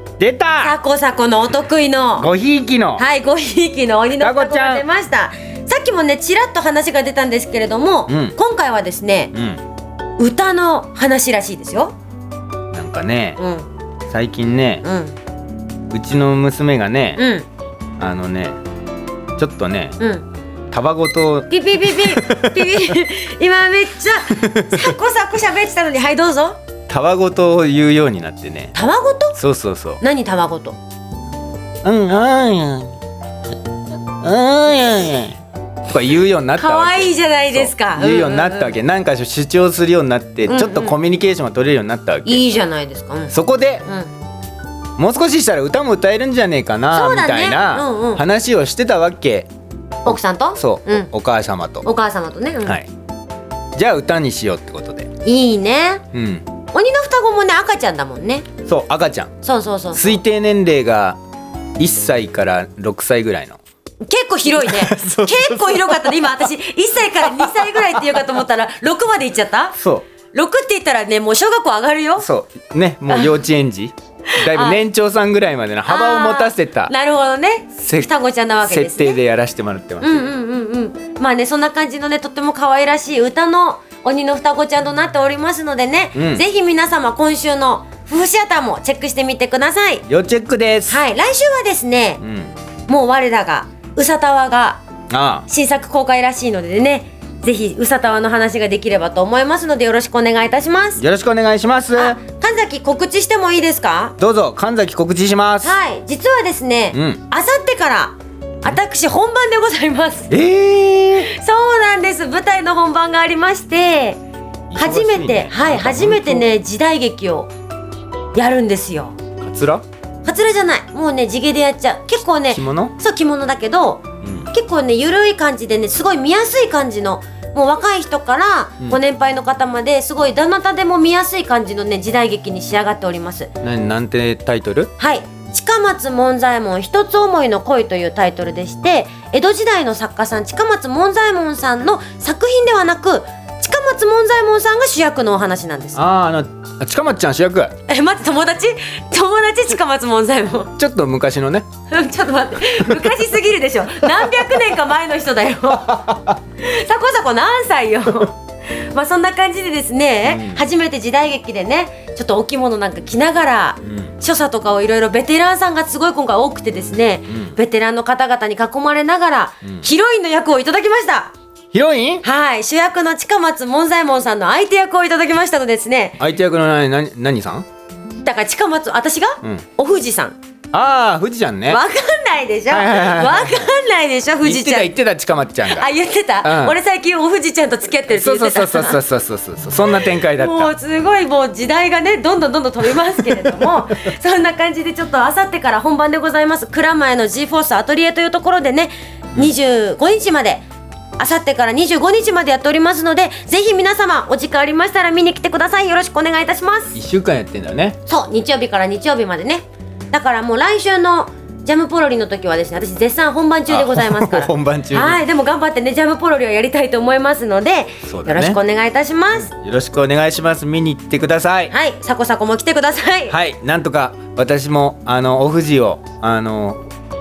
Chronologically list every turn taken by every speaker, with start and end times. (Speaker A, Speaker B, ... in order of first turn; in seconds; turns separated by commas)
Speaker A: 0.2-0.8, Speaker B: 0.6-2.3, Speaker A: 2.2-3.0, Speaker B: 3.0-9.3, Speaker A: 4.2-4.8, Speaker A: 8.1-8.3, Speaker A: 9.3-9.6, Speaker B: 10.2-11.9, Speaker A: 12.7-13.4, Speaker B: 13.4-13.7, Speaker A: 14.1-14.8, Speaker B: 14.8-15.2, Speaker A: 15.9-17.2, Speaker B: 17.1-17.5, Speaker A: 18.0-18.6, Speaker A: 19.4-20.0, Speaker B: 20.0-20.2, Speaker A: 20.7-22.8, Speaker B: 21.5-26.6, Speaker A: 24.3-24.9, Speaker A: 26.9-28.7, Speaker B: 28.7-29.4, Speaker A: 29.4-30.0, Speaker B: 30.0-30.8, Speaker A: 31.8-33.0, Speaker A: 34.2-35.4, Speaker A: 35.9-42.4, Speaker B: 36.5-38.8, Speaker B: 40.5-41.0, Speaker B: 42.2-43.3, Speaker A: 43.3-43.8, Speaker B: 43.8-44.1, Speaker A: 45.0-49.5, Speaker B: 46.9-48.2, Speaker B: 50.0-51.1, Speaker A: 50.0-51.9, Speaker B: 51.8-52.8, Speaker A: 53.8-55.1, Speaker B: 55.2-56.0, Speaker A: 56.1-56.5, Speaker B: 56.7-58.5, Speaker A: 58.6-59.3, Speaker B: 59.4-60.2, Speaker A: 59.9-61.2, Speaker A: 61.8-63.6, Speaker B: 64.0-69.8, Speaker A: 64.5-66.4, Speaker A: 67.2-68.0, Speaker A: 69.8-70.1, Speaker B: 70.3-72.3, Speaker A: 72.2-76.9, Speaker B: 73.1-73.4, Speaker B: 74.3-74.8, Speaker B: 75.8-79.2, Speaker A: 77.8-78.1, Speaker A: 78.6-80.3, Speaker B: 80.0-90.0, Speaker A: 86.1-86.4, Speaker A: 90.1-91.0, Speaker B: 90.9-92.2, Speaker A: 92.2-92.5, Speaker B: 92.9-94.8, Speaker A: 95.1-95.5, Speaker B: 95.5-101.0, Speaker A: 101.0-102.2, Speaker B: 101.9-104.1, Speaker A: 104.2-105.8, Speaker B: 105.6-110.3, Speaker A: 106.9-107.2, Speaker A: 110.3-111.3, Speaker B: 111.2-114.2, Speaker A: 114.7-116.5, Speaker B: 114.7-117.5, Speaker B: 118.3-119.2, Speaker A: 119.4-119.8, Speaker B: 120.2-133.5, Speaker A: 122.5-123.0, Speaker A: 124.2-124.5, Speaker A: 133.6-134.9, Speaker B: 135.0-146.0, Speaker A: 145.9-147.7, Speaker B: 147.9-150.7, Speaker A: 150.7-151.7, Speaker B: 151.9-171.3, Speaker A: 155.9-156.3, Speaker A: 160.2-160.6, Speaker A: 163.8-164.1, Speaker A: 167.3-167.6, Speaker A: 171.7-172.2, Speaker B: 172.2-176.2, Speaker A: 176.2-177.7, Speaker B: 178.2-180.4, Speaker A: 180.7-181.8, Speaker B: 181.7-184.9, Speaker A: 182.7-183.7, Speaker A: 184.4-185.9, Speaker B: 185.6-189.0, Speaker A: 186.4-186.8, Speaker A: 188.1-190.7, Speaker B: 189.8-200.6, Speaker A: 193.0-193.8, Speaker B: 201.2-207.0, Speaker A: 206.9-208.0, Speaker B: 208.1-219.5, Speaker A: 213.7-215.2, Speaker A: 218.0-218.6, Speaker A: 219.3-221.7, Speaker B: 221.7-223.3, Speaker A: 223.3-226.8